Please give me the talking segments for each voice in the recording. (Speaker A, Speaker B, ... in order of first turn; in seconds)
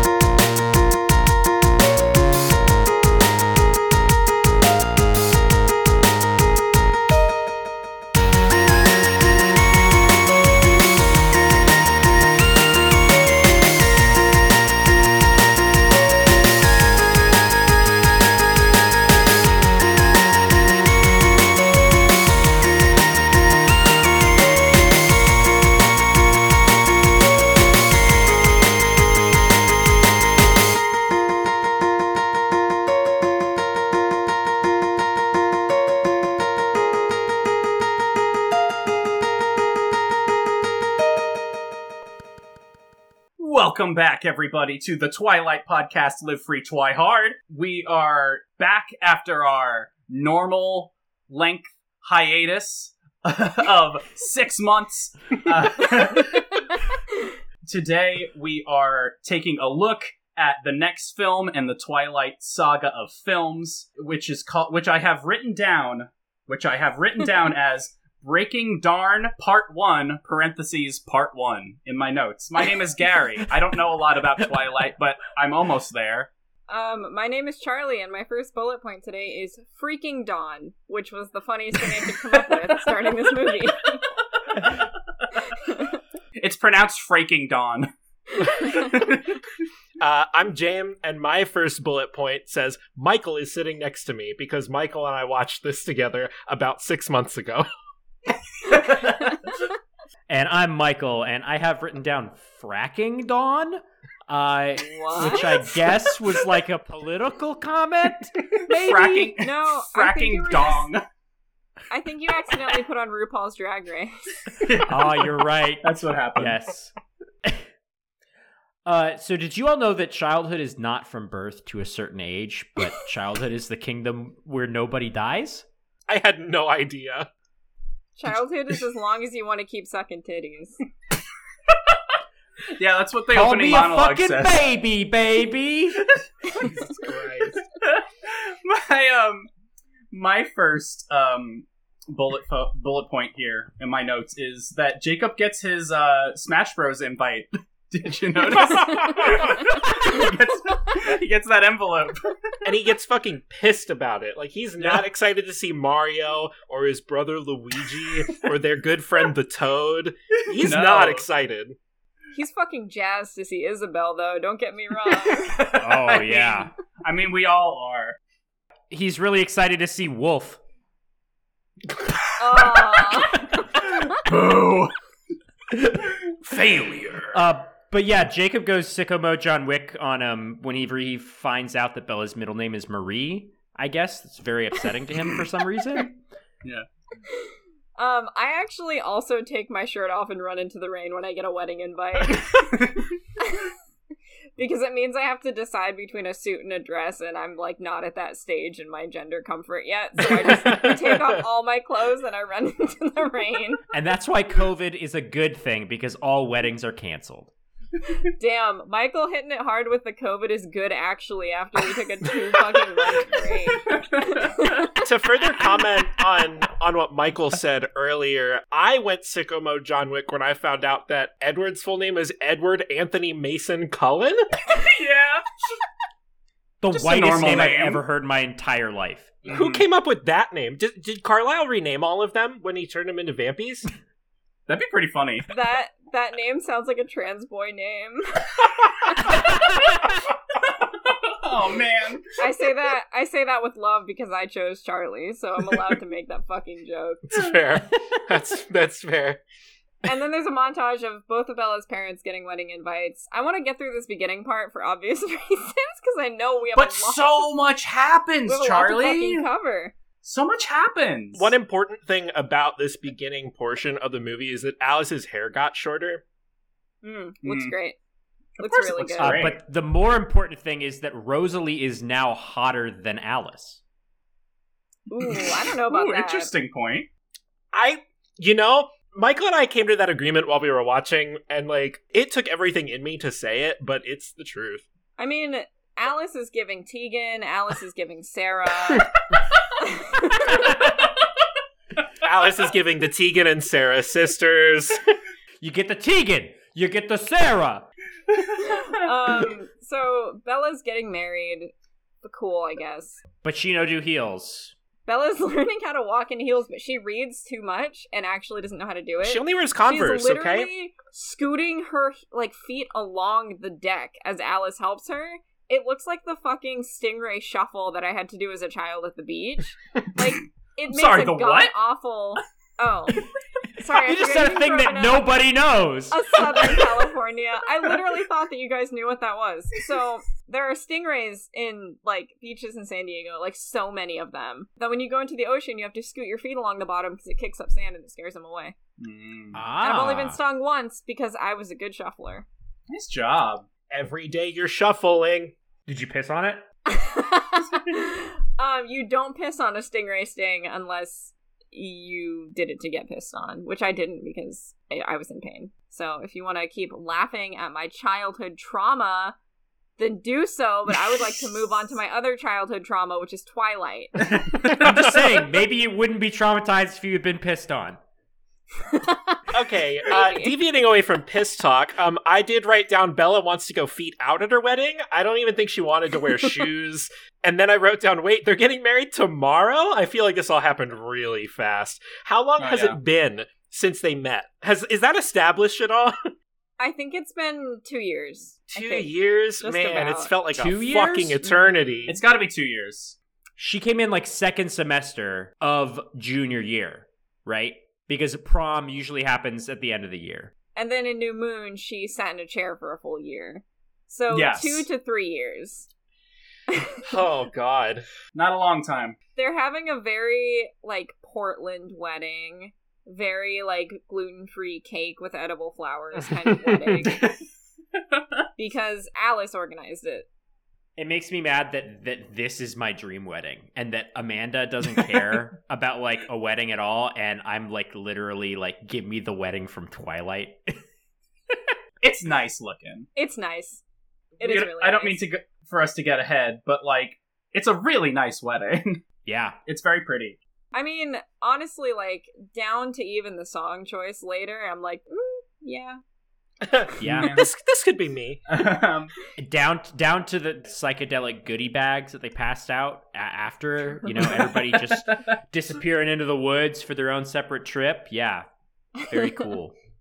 Speaker A: 43.4-56.7, 57.7-76.3, 86.4-87.9, 88.5-89.3, 108.7-111.0, 114.6-116.6, 132.8-134.6, 137.8-139.5, 140.1-152.3, 154.8-155.1, 160.5-161.2, 165.1-168.2, 174.0-174.9, 176.6-177.1, 192.3-193.1, 200.4-200.9, 213.9-214.8, 224.8-225.4, 226.9-228.0, 229.4-229.8, 234.7-235.5, 240.6-242.2, 256.7-259.5, 260.2-261.5, 267.4-267.8, 268.6-269.6, 275.3-277.1, 320.9-321.7, 339.0-339.6, 342.9-343.6, 364.4-365.2, 382.6-383.0, 392.1-393.2, 404.3-404.9, 408.3-409.2, 417.0-417.4, 432.0-433.1, 434.4-439.0, 439.7-440.4, 447.0-447.5, 448.5-449.1, 454.2-455.2
Speaker B: 76.7-84.0, 85.7-86.0, 104.8-105.6, 109.3-110.9, 111.9-114.1, 128.2-130.8, 162.3-165.5, 172.4-173.6, 187.5-192.6, 193.4-193.7, 194.6-203.8, 208.4-214.9, 235.5-238.5, 242.4-247.2, 250.1-257.5, 258.5-259.9, 267.0-268.0, 268.6-269.4, 275.1-276.5, 285.2-289.1, 289.8-290.6, 298.7-301.7, 302.2-303.2, 305.1-323.2, 323.8-325.3, 326.1-338.8, 339.8-342.5, 346.9-359.4, 360.0-364.4, 370.1-370.5, 386.8-390.3, 400.8-405.9, 409.4-417.2, 418.6-420.3, 433.1-433.8, 434.4-435.2, 440.7-446.0
Speaker C: 90.0-97.7, 126.1-127.3, 136.6-137.6, 148.9-149.6, 152.6-161.8, 176.6-177.1, 215.0-224.5, 229.5-233.9, 247.3-249.4, 261.4-266.2, 277.7-284.9, 292.2-295.0, 309.2-310.7, 343.9-345.6, 364.8-365.3, 369.5-386.2, 388.7-392.2, 407.1-408.1, 446.6-448.4
Speaker D: 100.3-109.3, 114.9-116.9, 118.8-125.7, 133.3-136.1, 165.7-166.7, 168.9-170.6, 177.3-186.2, 203.9-207.5, 226.8-229.3, 269.2-273.8, 295.6-297.9, 303.4-304.7, 324.0-326.4, 339.5-340.4, 345.9-346.6, 364.6-368.0, 390.6-391.4, 393.6-400.5, 421.0-430.8, 439.2-439.6, 447.0-447.4, 449.4-458.5, 459.0-459.8